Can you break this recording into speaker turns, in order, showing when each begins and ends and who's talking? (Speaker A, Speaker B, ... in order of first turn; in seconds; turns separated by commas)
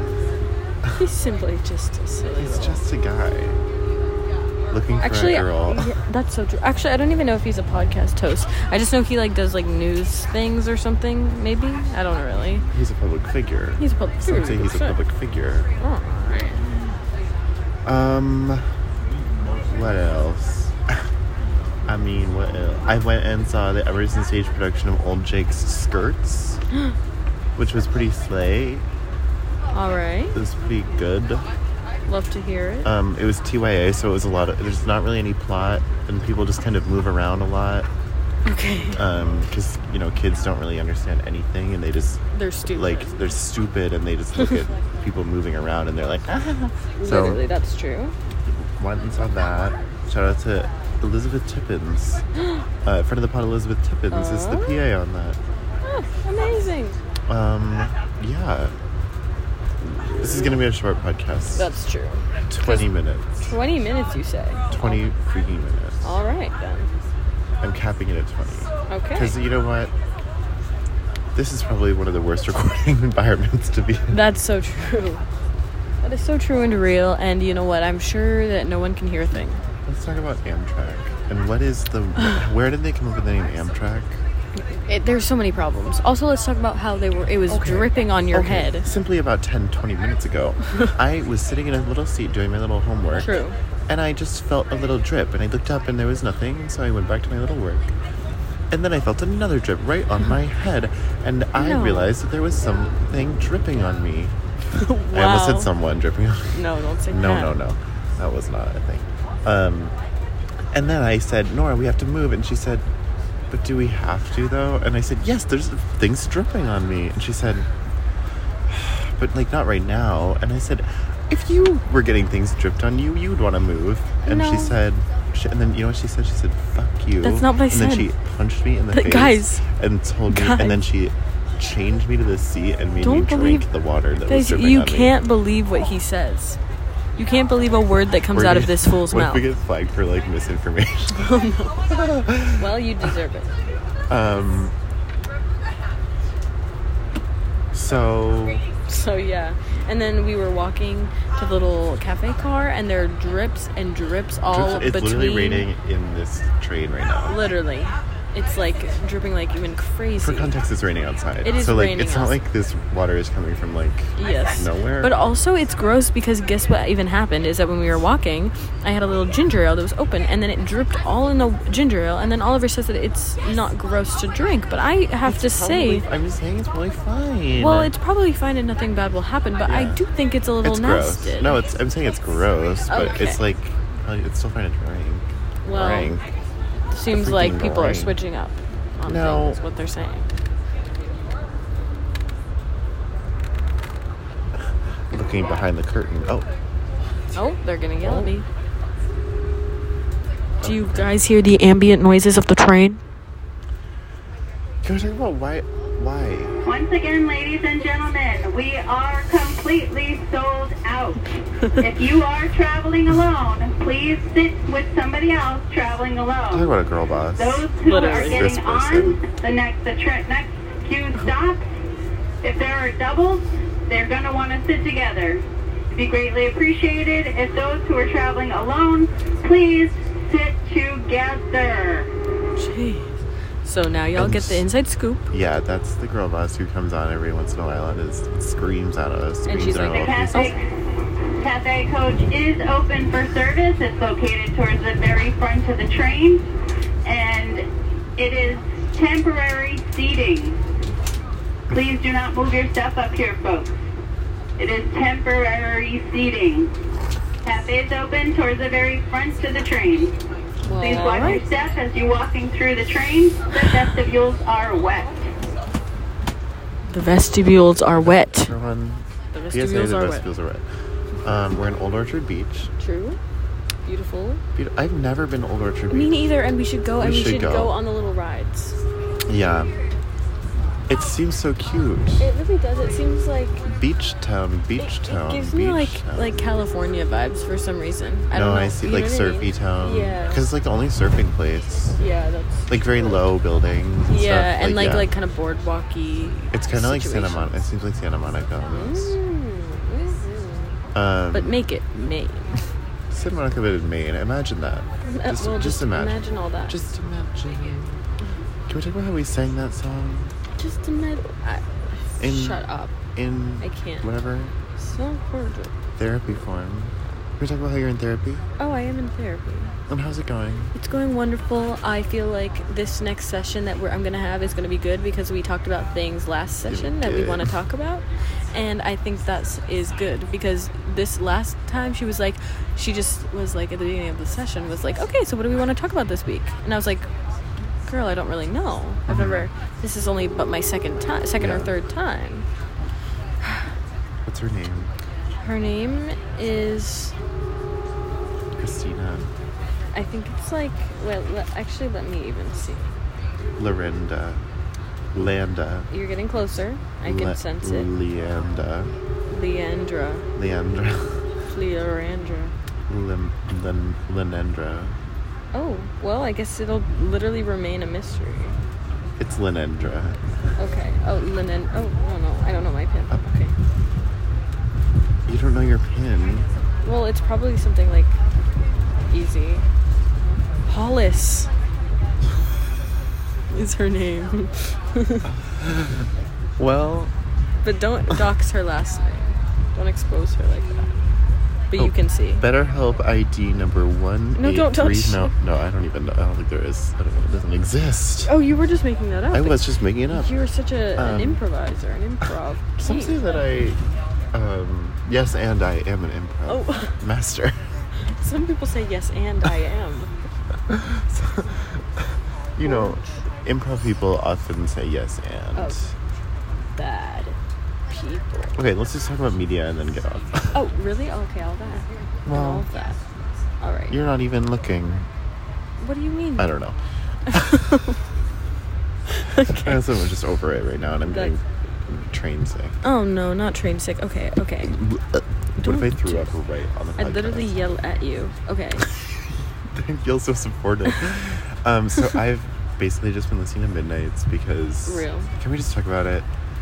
Speaker A: 0.9-2.8, Speaker B: 2.4-3.6, Speaker B: 4.7-5.9, Speaker A: 5.0-12.6, Speaker B: 12.7-15.7, Speaker A: 13.8-15.0, Speaker A: 15.8-16.7, Speaker B: 17.8-18.6, Speaker B: 19.6-20.8, Speaker B: 21.9-26.6, Speaker B: 27.6-28.8, Speaker A: 29.7-30.4, Speaker B: 30.3-31.4, Speaker A: 32.1-32.9, Speaker B: 32.8-37.9, Speaker A: 38.4-39.0, Speaker B: 38.9-47.4, Speaker A: 42.3-43.3, Speaker A: 44.4-44.6, Speaker A: 47.0-48.1, Speaker B: 48.8-52.2, Speaker B: 52.8-55.4, Speaker A: 54.1-54.8, Speaker A: 55.8-57.0, Speaker B: 57.3-58.7, Speaker A: 59.9-60.6, Speaker B: 60.1-61.7, Speaker A: 61.5-62.9, Speaker B: 62.5-63.5, Speaker A: 63.4-65.0, Speaker B: 64.7-66.1, Speaker A: 66.0-66.9, Speaker B: 67.6-69.9, Speaker A: 68.9-69.3, Speaker B: 71.3-74.2, Speaker A: 74.1-75.2, Speaker A: 76.0-79.6, Speaker B: 79.8-84.2, Speaker A: 84.7-88.9, Speaker B: 87.5-93.3, Speaker A: 93.1-93.5, Speaker B: 93.9-97.9, Speaker B: 98.7-104.3, Speaker A: 101.5-102.1, Speaker A: 104.7-105.7, Speaker B: 105.1-109.9, Speaker A: 106.5-107.6, Speaker B: 110.7-112.8, Speaker B: 113.5-117.7, Speaker B: 118.7-135.1, Speaker A: 124.2-124.7, Speaker A: 127.2-128.1, Speaker A: 128.9-129.6, Speaker A: 130.3-130.8, Speaker A: 133.0-133.7, Speaker A: 134.3-136.6, Speaker A: 137.2-139.4, Speaker B: 138.3-141.3, Speaker A: 141.1-141.9, Speaker B: 141.9-142.7, Speaker A: 142.6-143.5, Speaker B: 144.1-144.7, Speaker B: 147.7-148.7, Speaker A: 148.8-155.7, Speaker B: 154.5-157.4, Speaker A: 157.3-160.5, Speaker B: 160.2-165.2, Speaker A: 161.4-162.4, Speaker A: 164.2-176.0, Speaker B: 175.2-177.9, Speaker A: 177.6-181.6, Speaker B: 179.7-180.0, Speaker B: 180.6-186.2, Speaker A: 182.9-183.4, Speaker A: 185.6-186.2, Speaker A: 186.9-190.3, Speaker B: 187.1-188.1, Speaker B: 189.1-189.6, Speaker B: 195.1-196.5, Speaker A: 197.3-198.4, Speaker B: 198.0-198.3, Speaker B: 200.6-201.1, Speaker A: 200.6-203.0, Speaker B: 204.8-206.6, Speaker C: 206.6-216.7, Speaker B: 216.5-217.7, Speaker C: 217.4-221.7, Speaker A: 217.8-218.5, Speaker B: 218.3-219.2, Speaker C: 222.4-232.1, Speaker A: 232.6-235.2, Speaker B: 234.1-234.6, Speaker B: 235.3-240.5, Speaker A: 239.4-240.5, Speaker C: 239.9-240.6, Speaker C: 241.4-246.4, Speaker C: 247.0-250.6, Speaker C: 251.7-253.8, Speaker C: 254.6-256.7, Speaker C: 257.4-260.1, Speaker A: 260.6-261.4, Speaker C: 260.7-265.3, Speaker A: 266.9-268.5, Speaker B: 267.9-270.6, Speaker A: 269.3-270.3, Speaker B: 271.2-272.7, Speaker A: 272.8-273.2, Speaker A: 273.8-274.4, Speaker B: 274.5-276.2, Speaker A: 275.9-278.8, Speaker B: 277.0-277.7, Speaker B: 279.3-279.8, Speaker B: 280.9-282.3, Speaker A: 282.2-283.6, Speaker B: 283.6-286.4, Speaker A: 284.8-290.4, Speaker B: 288.3-292.0, Speaker A: 292.0-293.2, Speaker B: 292.7-295.1, Speaker A: 294.1-297.6, Speaker B: 296.5-299.1, Speaker A: 298.6-300.8, Speaker B: 300.9-301.5, Speaker A: 301.3-302.6, Speaker B: 303.1-308.0, Speaker A: 305.0-306.8, Speaker B: 308.7-310.3, Speaker A: 310.6-312.9, Speaker B: 312.2-312.6, Speaker B: 313.1-314.5, Speaker A: 313.6-314.1, Speaker A: 314.8-315.7, Speaker B: 316.0-318.4, Speaker A: 318.6-319.7, Speaker B: 319.9-320.7, Speaker A: 320.7-337.1, Speaker B: 326.7-327.5, Speaker A: 337.9-342.4, Speaker B: 339.1-339.5, Speaker B: 341.4-341.7, Speaker B: 344.2-344.9, Speaker A: 345.4-347.1, Speaker B: 348.6-349.3, Speaker A: 349.9-352.9, Speaker B: 353.6-354.4, Speaker B: 355.1-355.9, Speaker A: 355.9-357.9, Speaker B: 357.0-358.9, Speaker A: 359.3-360.2, Speaker B: 360.4-361.2, Speaker A: 361.5-362.5, Speaker B: 362.9-365.0, Speaker A: 365.5-368.6, Speaker B: 369.2-370.2, Speaker A: 370.6-373.5, Speaker B: 375.3-376.5, Speaker A: 376.8-378.1, Speaker A: 379.1-379.6, Speaker A: 380.7-381.5, Speaker A: 383.5-385.2, Speaker B: 385.6-386.0, Speaker B: 386.6-387.1, Speaker A: 387.6-390.9, Speaker A: 391.7-392.4, Speaker B: 391.8-398.3, Speaker A: 394.4-395.3, Speaker A: 398.2-403.2, Speaker B: 399.3-400.3, Speaker B: 401.0-401.4, Speaker B: 402.8-403.8, Speaker B: 404.3-407.6, Speaker A: 406.5-407.0, Speaker A: 408.0-410.1, Speaker B: 410.7-411.8, Speaker B: 412.6-415.9, Speaker A: 412.6-413.2, Speaker A: 415.5-415.8, Speaker A: 416.8-417.4, Speaker A: 417.9-418.6, Speaker B: 418.6-420.6, Speaker A: 420.5-423.0, Speaker B: 422.2-422.7, Speaker A: 423.6-423.9, Speaker B: 423.9-425.1, Speaker A: 425.8-426.5, Speaker B: 426.4-426.8, Speaker A: 427.3-427.9, Speaker A: 429.2-429.8, Speaker B: 429.6-432.8, Speaker A: 431.0-431.3, Speaker A: 432.8-434.8, Speaker B: 434.6-437.6, Speaker A: 435.6-436.3, Speaker A: 437.0-438.9, Speaker B: 439.7-446.2, Speaker A: 444.9-445.3